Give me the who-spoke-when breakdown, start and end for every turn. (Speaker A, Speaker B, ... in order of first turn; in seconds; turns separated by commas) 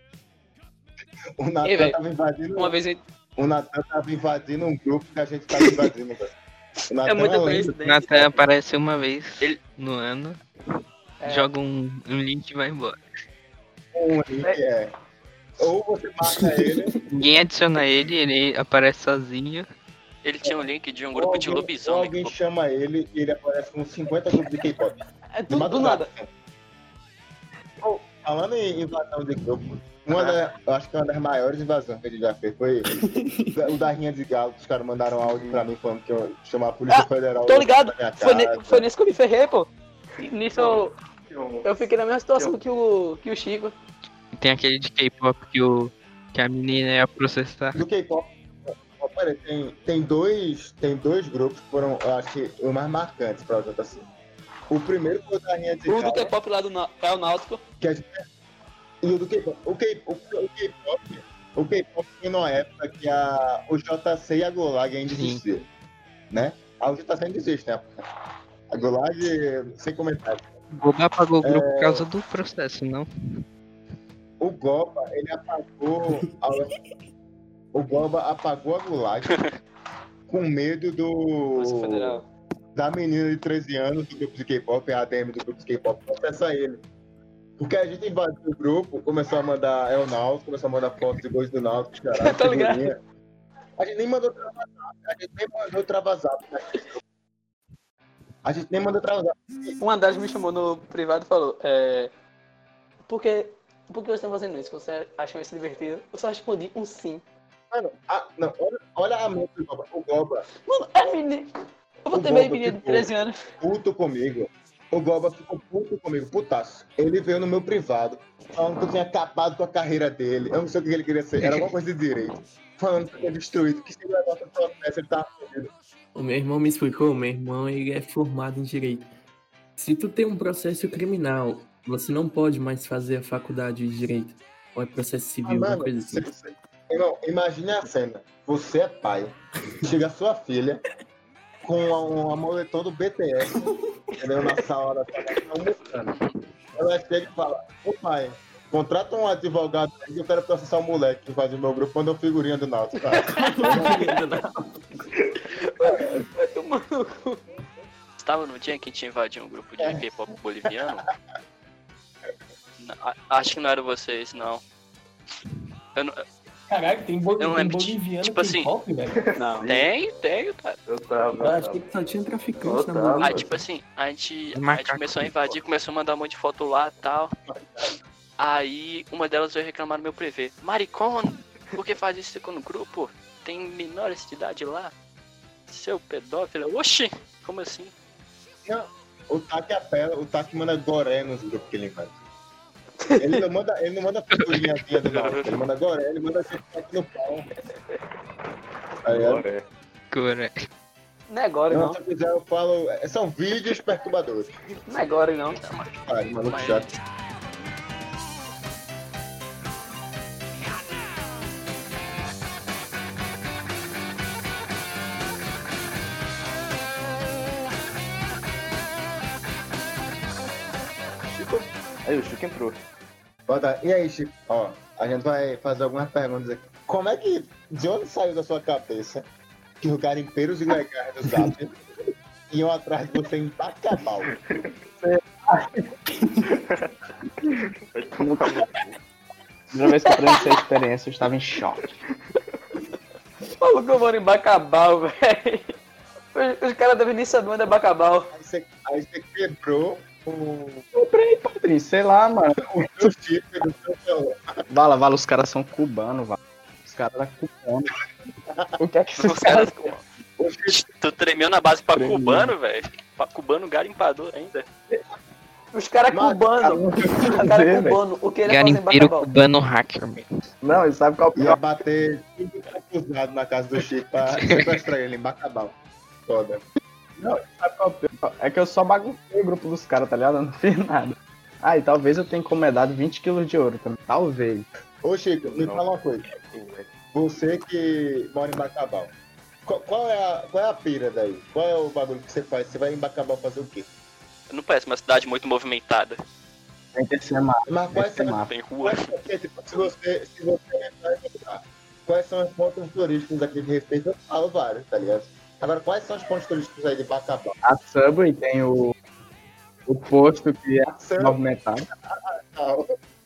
Speaker A: 1.4-2.8, Speaker B: 1.6-2.0, Speaker B: 2.5-3.0, Speaker A: 3.4-6.3, Speaker B: 5.6-5.9, Speaker A: 6.9-7.7, Speaker B: 7.0-8.4, Speaker C: 7.7-10.4, Speaker B: 11.2-11.5, Speaker C: 11.2-13.0, Speaker A: 13.9-14.9, Speaker A: 15.6-16.9, Speaker C: 17.1-19.6, Speaker D: 20.2-22.3, Speaker A: 21.1-26.3, Speaker B: 25.4-26.1, Speaker A: 27.8-33.0, Speaker E: 33.0-33.5, Speaker A: 33.5-38.8, Speaker F: 35.3-35.6, Speaker B: 36.9-40.9, Speaker F: 40.5-41.7, Speaker B: 41.6-43.7, Speaker C: 44.3-47.8, Speaker A: 47.8-54.1, Speaker A: 54.7-56.3, Speaker B: 55.9-57.6, Speaker A: 57.8-58.2, Speaker A: 59.0-65.7, Speaker C: 65.1-65.4, Speaker A: 66.3-67.9, Speaker A: 68.7-70.5, Speaker C: 70.7-73.1, Speaker A: 71.4-72.0, Speaker A: 74.4-76.7, Speaker A: 77.7-79.5, Speaker A: 80.3-82.2, Speaker B: 81.6-82.2, Speaker A: 82.7-86.8, Speaker A: 87.6-93.0, Speaker B: 92.1-92.9, Speaker A: 93.8-97.0, Speaker A: 98.4-99.8, Speaker B: 99.8-102.1, Speaker B: 103.1-107.2, Speaker A: 107.7-110.5, Speaker B: 110.5-111.5, Speaker B: 112.0-113.5, Speaker A: 112.1-113.1, Speaker A: 113.6-125.7, Speaker E: 126.1-129.1, Speaker E: 129.8-136.3, Speaker A: 135.4-140.8, Speaker A: 141.6-143.7, Speaker A: 144.2-146.1, Speaker D: 145.8-146.3, Speaker A: 146.8-153.9, Speaker B: 153.0-154.0, Speaker E: 153.4-155.0, Speaker B: 155.8-157.4, Speaker D: 158.2-161.1, Speaker A: 160.8-161.1, Speaker D: 162.8-164.6, Speaker D: 165.9-166.2, Speaker E: 166.7-169.2, Speaker D: 167.4-168.7, Speaker F: 169.1-169.9, Speaker B: 169.3-169.7, Speaker D: 169.7-170.8, Speaker F: 170.9-171.8, Speaker E: 171.4-173.6, Speaker F: 172.6-173.4, Speaker D: 173.2-177.3, Speaker C: 174.5-175.3, Speaker A: 177.5-177.9, Speaker D: 178.4-184.9, Speaker D: 185.7-187.9, Speaker A: 188.7-192.1, Speaker B: 193.1-193.5, Speaker A: 193.2-197.5, Speaker D: 195.1-195.6, Speaker A: 199.0-199.4, Speaker F: 199.1-199.7, Speaker C: 200.1-200.6, Speaker B: 201.3-202.0, Speaker A: 201.7-204.6, Speaker B: 204.9-205.6, Speaker D: 205.6-207.0, Speaker A: 206.0-206.8, Speaker A: 221.3-221.7, Speaker F: 222.0-222.8, Speaker A: 223.5-229.2, Speaker A: 229.8-231.8, Speaker A: 232.5-234.3, Speaker F: 234.2-234.7, Speaker G: 235.0-235.8, Speaker F: 236.5-236.9, Speaker F: 237.9-238.9, Speaker G: 238.2-238.6, Speaker G: 239.7-241.8, Speaker B: 240.1-240.6, Speaker B: 243.6-245.7, Speaker B: 246.3-248.3, Speaker A: 248.3-250.8, Speaker G: 250.9-253.1, Speaker A: 252.6-254.6, Speaker G: 254.7-257.9, Speaker G: 258.8-259.9, Speaker D: 259.2-260.0, Speaker A: 260.4-260.8, Speaker D: 260.7-264.6, Speaker G: 261.9-262.5, Speaker B: 265.7-269.3, Speaker A: 266.1-266.8, Speaker G: 266.6-268.0, Speaker C: 268.4-270.3, Speaker G: 270.6-271.6, Speaker A: 271.4-275.7, Speaker C: 274.3-274.7, Speaker A: 276.3-276.6, Speaker G: 277.2-284.7, Speaker A: 285.0-286.3, Speaker F: 285.4-285.8, Speaker F: 286.4-286.9, Speaker A: 287.1-289.1, Speaker A: 289.6-293.9, Speaker D: 294.5-296.2, Speaker G: 296.9-298.5, Speaker A: 297.7-307.6, Speaker D: 298.5-299.1, Speaker G: 307.6-308.9, Speaker G: 309.9-311.9, Speaker A: 310.9-311.4, Speaker A: 312.1-312.9